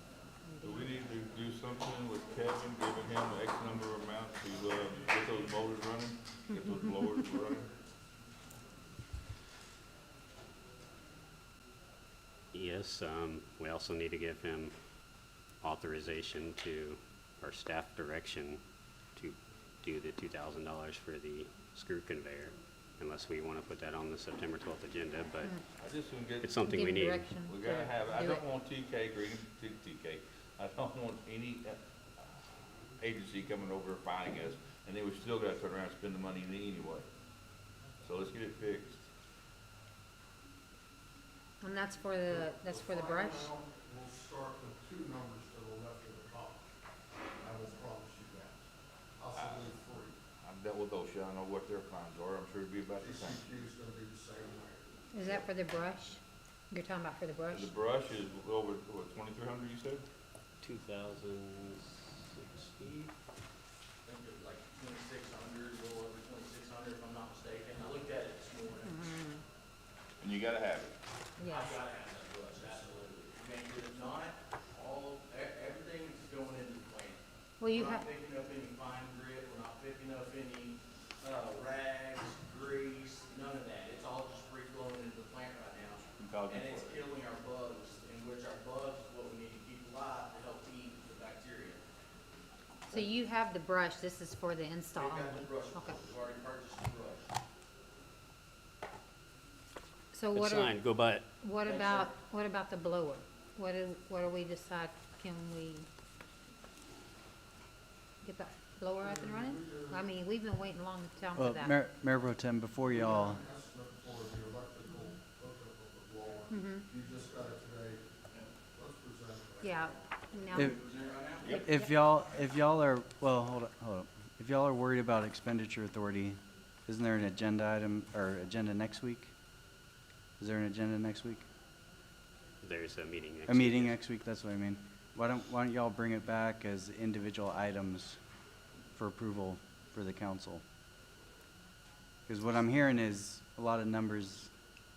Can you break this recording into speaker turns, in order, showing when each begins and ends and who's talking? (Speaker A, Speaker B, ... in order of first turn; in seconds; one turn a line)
Speaker A: 0.4-1.0
Speaker B: 0.6-7.7
Speaker C: 12.5-14.7
Speaker C: 15.6-18.6
Speaker C: 19.2-25.5
Speaker A: 25.4-25.6
Speaker B: 25.8-31.8
Speaker C: 26.4-27.3
Speaker A: 26.7-28.4
Speaker B: 33.0-37.1
Speaker B: 38.0-39.0
Speaker A: 41.6-43.5
Speaker D: 42.3-46.6
Speaker D: 47.4-48.7
Speaker D: 49.2-50.2
Speaker B: 49.3-49.7
Speaker B: 50.4-53.4
Speaker D: 53.0-55.4
Speaker A: 55.1-57.7
Speaker B: 57.5-60.0
Speaker C: 60.6-63.1
Speaker E: 64.0-69.0
Speaker A: 68.8-69.4
Speaker B: 70.2-71.0
Speaker A: 71.4-71.8
Speaker E: 71.5-77.2
Speaker A: 77.6-78.1
Speaker E: 77.7-91.8
Speaker B: 86.2-87.1
Speaker A: 92.9-96.0
Speaker E: 94.9-97.2
Speaker A: 100.1-105.9
Speaker C: 100.3-101.3
Speaker E: 101.7-102.1
Speaker A: 108.2-111.8
Speaker D: 109.0-110.0
Speaker F: 111.4-113.4
Speaker D: 112.9-118.0
Speaker A: 116.5-116.9
Speaker D: 118.7-120.0
Speaker A: 119.6-120.8
Speaker E: 120.6-121.6
Speaker D: 120.9-121.3
Speaker A: 121.5-122.1
Speaker F: 121.6-129.3
Speaker F: 130.4-131.5
Speaker C: 132.6-134.0
Speaker F: 133.5-138.2
Speaker F: 138.9-140.6
Speaker F: 142.3-144.5